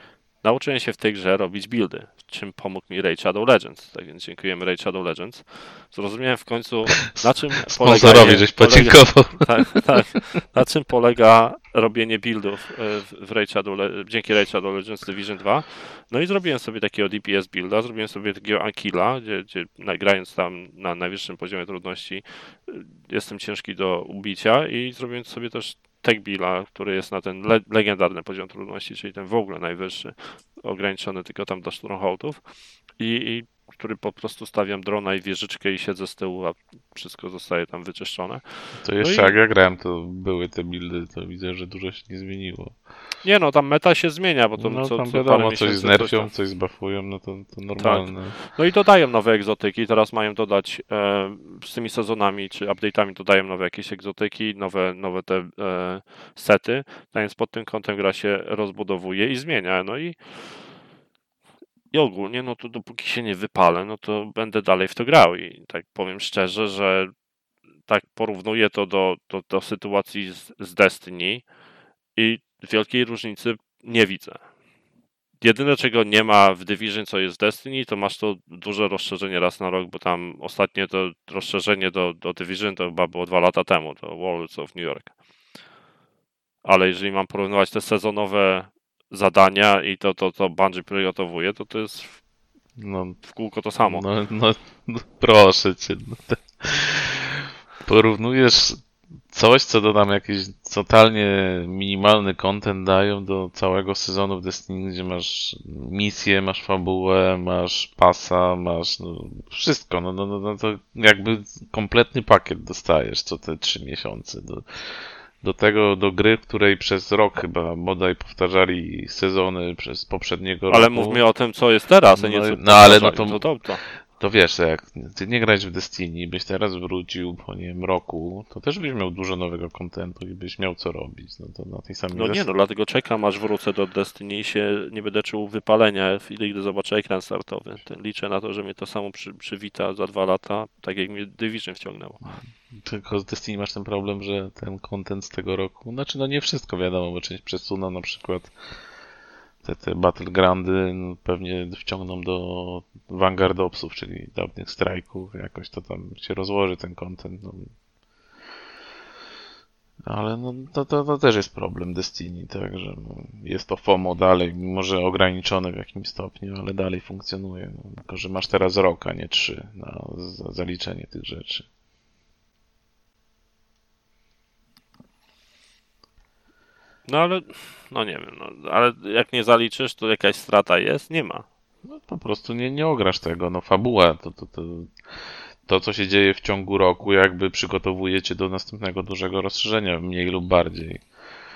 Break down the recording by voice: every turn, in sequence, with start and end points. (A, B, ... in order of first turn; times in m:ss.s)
0:00.4-0:39.4 A
0:07.1-0:09.8 B
0:38.8-0:42.9 B
0:43.2-0:46.3 A
0:44.6-0:48.4 B
0:47.8-1:00.7 A
1:01.9-1:07.1 A
1:07.9-1:11.5 A
1:12.1-1:14.5 A
1:15.4-1:25.2 A
1:26.6-1:32.2 A
1:32.8-2:01.4 B
1:33.2-1:34.1 A
2:00.7-2:03.8 A
2:02.1-2:12.4 B
2:12.1-2:22.2 A
2:22.2-2:28.9 B
2:29.6-2:37.7 B
2:40.0-2:51.7 B
2:57.1-3:01.4 A
3:01.9-3:11.0 B